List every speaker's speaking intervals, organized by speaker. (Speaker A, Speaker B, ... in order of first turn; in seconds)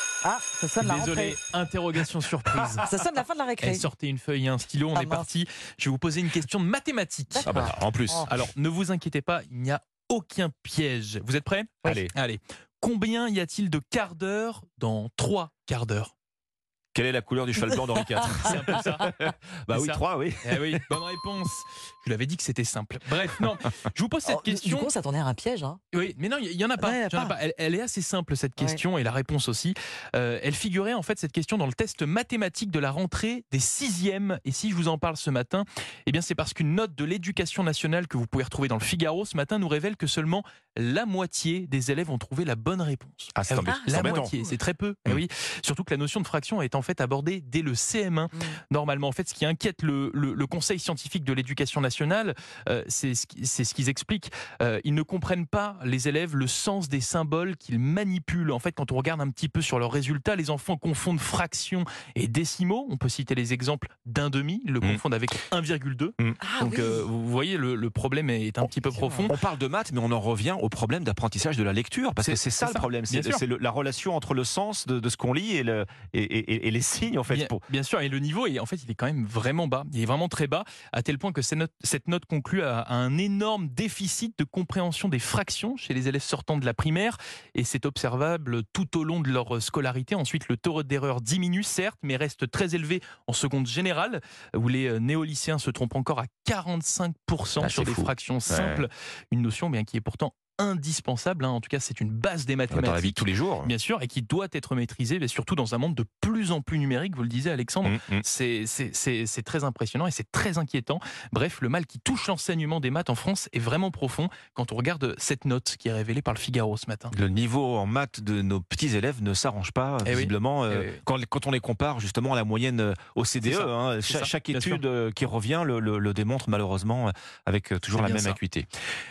Speaker A: 0.2-1.4, 2.9-3.9, 4.9-5.3, 7.3-8.3, 24.2-25.8, 26.8-27.4, 43.7-44.5, 66.4-67.0, 68.9-69.3
Speaker B: 0.8-2.9, 3.6-7.7, 8.2-16.1, 18.4-19.1, 19.7-24.9, 25.9-69.4, 72.2-73.4, 77.3-117.1, 120.0-121.0, 123.4-124.8, 128.0-128.4
Speaker C: 7.4-8.3, 11.8-12.1, 16.9-20.8, 43.3-44.3, 69.3-77.6, 97.6-98.8, 102.7-103.7, 107.8-108.2, 117.1-128.7